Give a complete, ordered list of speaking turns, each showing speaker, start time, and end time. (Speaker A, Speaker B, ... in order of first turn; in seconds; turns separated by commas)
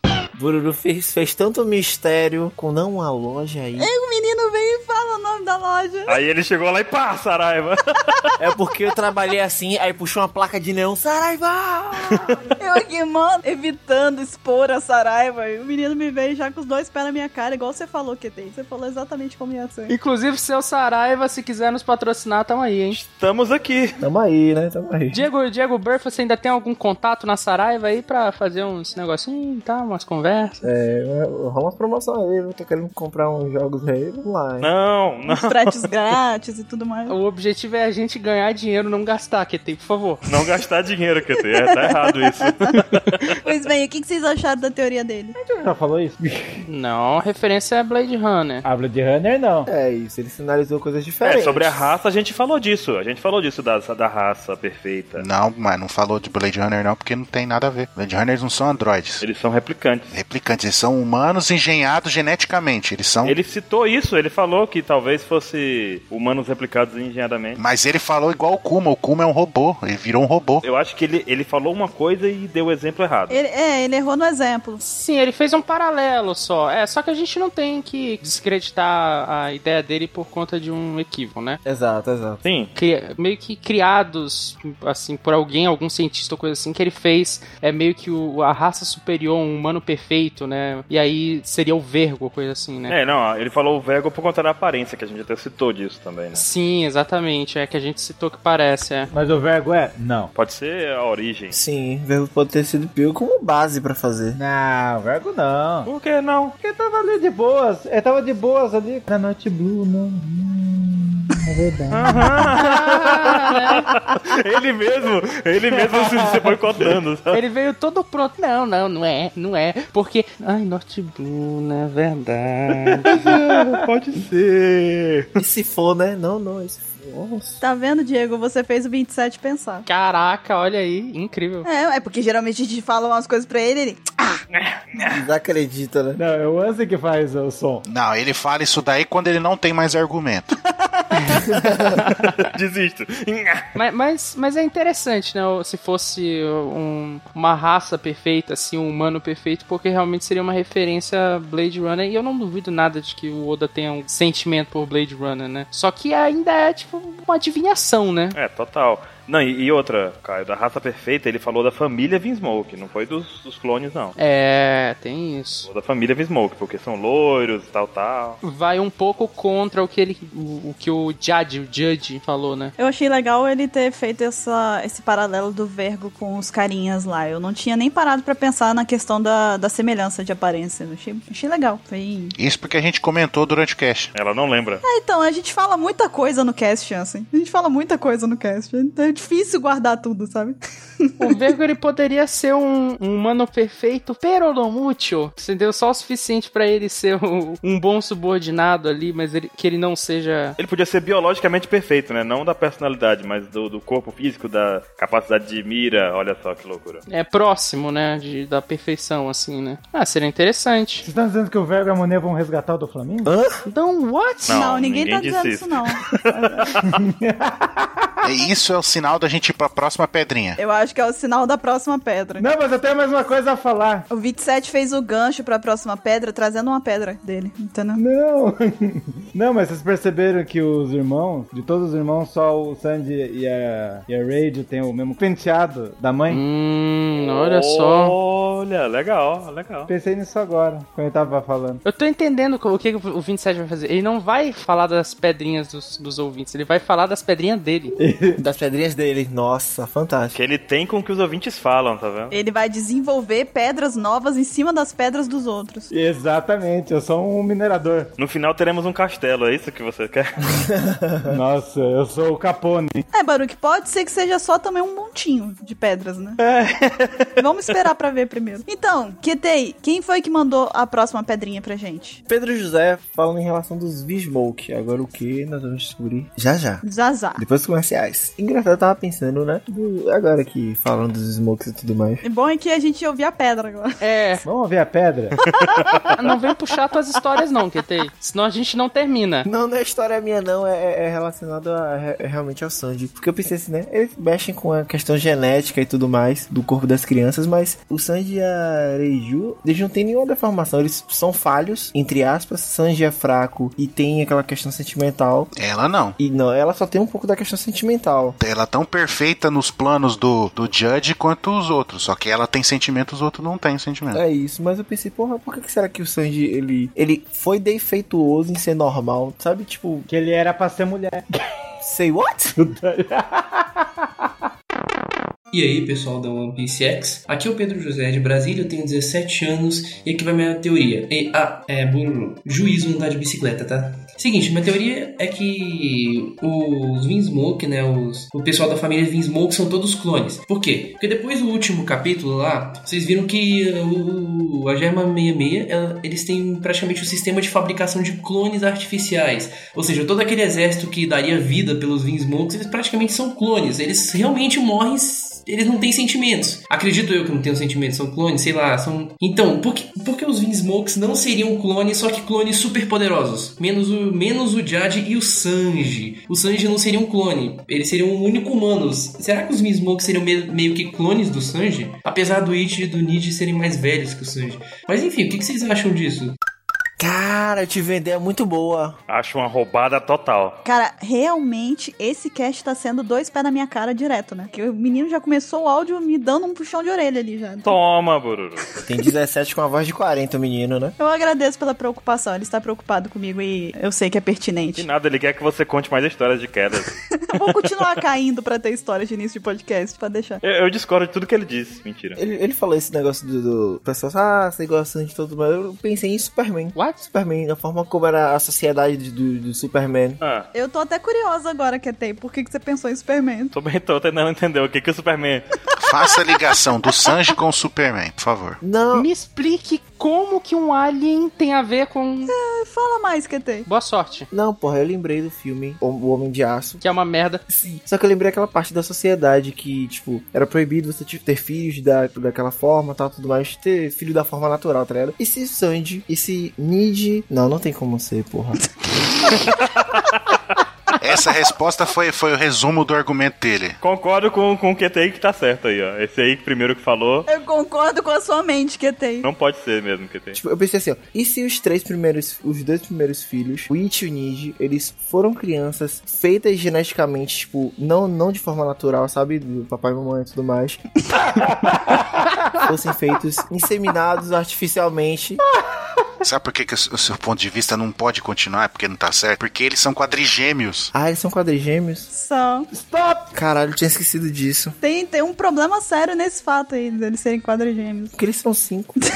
Speaker A: 0.3-3.9, Speaker B: 3.8-6.2, Speaker C: 6.1-8.3, Speaker A: 8.4-12.4, Speaker B: 12.6-19.9, Speaker D: 19.9-23.0, Speaker C: 22.9-23.9, Speaker A: 24.0-25.2, Speaker D: 25.1-30.7, Speaker A: 30.6-34.7, Speaker C: 34.6-35.9, Speaker B: 35.3-37.1, Speaker D: 37.1-40.2, Speaker C: 40.2-43.2, Speaker B: 41.8-42.7, Speaker B: 43.4-45.3, Speaker E: 45.3-46.6, Speaker D: 46.7-48.6, Speaker E: 48.6-49.7, Speaker A: 49.6-51.9, Speaker C: 51.2-55.2, Speaker F: 55.1-59.2, Speaker C: 59.2-60.1, Speaker F: 60.1-63.4, Speaker C: 63.2-67.6, Speaker F: 67.6-70.6, Speaker C: 70.6-73.4, Speaker B: 73.3-74.8, Speaker D: 74.8-81.6, Speaker A: 81.6-82.4, Speaker C: 82.4-82.7, Speaker D: 82.7-92.9, Speaker C: 92.9-96.4, Speaker D: 96.3-99.1, Speaker E: 99.1-100.3, Speaker C: 100.3-101.5, Speaker A: 101.5-104.4, Speaker E: 104.3-105.9, Speaker C: 105.8-106.5, Speaker E: 106.6-112.6, Speaker C: 111.9-117.4, Speaker D: 112.5-113.8, Speaker E: 115.8-116.8, Speaker D: 117.3-123.1, Speaker C: 123.0-125.3, Speaker A: 125.3-127.6, Speaker B: 127.6-129.8, Speaker D: 129.8-131.7, Speaker B: 131.6-134.0, Speaker C: 134.6-135.2, Speaker A: 135.1-136.2, Speaker E: 136.2-137.8, Speaker F: 137.8-140.5, Speaker C: 142.0-143.7, Speaker D: 143.7-158.3, Speaker C: 158.3-164.2, Speaker D: 164.2-165.7, Speaker C: 165.7-168.4, Speaker D: 168.4-172.7, Speaker B: 172.8-182.3, Speaker F: 182.4-184.1, Speaker C: 184.1-184.8, Speaker B: 184.8-191.2, Speaker D: 191.2-200.6, Speaker C: 200.6-207.0, Speaker D: 207.1-211.0, Speaker E: 211.0-213.3, Speaker A: 213.2-213.6, Speaker D: 213.7-214.6, Speaker C: 214.5-216.9, Speaker B: 214.5-216.7, Speaker E: 217.1-218.1, Speaker F: 218.2-220.6, Speaker B: 220.6-222.5, Speaker E: 222.4-224.0, Speaker B: 224.1-228.0, Speaker E: 228.0-236.4, Speaker D: 236.3-238.1, Speaker C: 237.2-239.9, Speaker E: 239.9-241.8, Speaker D: 241.8-247.9, Speaker E: 248.0-248.4, Speaker A: 248.4-250.3, Speaker C: 250.3-252.3, Speaker B: 252.3-255.9, Speaker E: 255.9-258.1, Speaker C: 258.2-260.3, Speaker A: 260.7-261.3, Speaker E: 261.2-263.0, Speaker B: 263.1-266.4, Speaker C: 266.4-267.3, Speaker B: 267.4-272.2, Speaker A: 272.3-276.8, Speaker B: 276.8-277.4, Speaker A: 277.4-282.2, Speaker B: 282.2-284.0, Speaker D: 284.0-284.4, Speaker E: 284.4-285.4, Speaker D: 286.1-289.5, Speaker A: 289.4-305.5, Speaker F: 305.6-306.1, Speaker A: 306.2-308.4, Speaker F: 308.4-314.2, Speaker A: 314.1-320.1, Speaker E: 320.1-321.3, Speaker A: 321.8-322.5, Speaker E: 322.6-323.6, Speaker G: 325.5-376.4, Speaker A: 377.0-379.0, Speaker C: 379.1-380.6, Speaker B: 380.6-387.8, Speaker C: 387.6-388.6, Speaker A: 388.8-391.0, Speaker B: 391.0-394.9, Speaker C: 394.8-397.7, Speaker B: 397.3-400.4, Speaker C: 400.4-402.2, Speaker A: 402.2-410.2, Speaker D: 406.7-407.0, Speaker C: 410.2-410.5, Speaker B: 410.5-413.5, Speaker C: 413.5-415.4, Speaker F: 415.8-418.6, Speaker A: 418.6-419.1, Speaker D: 418.9-422.3, Speaker B: 422.3-423.7, Speaker D: 423.6-424.3, Speaker A: 424.3-426.8, Speaker D: 426.8-427.4, Speaker A: 427.5-438.6, Speaker F: 441.0-443.8, Speaker C: 443.8-447.3, Speaker B: 447.3-449.2, Speaker C: 449.2-450.4, Speaker A: 450.4-460.8, Speaker E: 461.3-462.0, Speaker A: 462.6-465.4, Speaker F: 466.2-470.9, Speaker A: 470.9-472.1, Speaker B: 472.1-472.7, Speaker E: 472.7-473.3, Speaker A: 473.3-474.7, Speaker B: 474.8-478.1, Speaker A: 478.1-478.9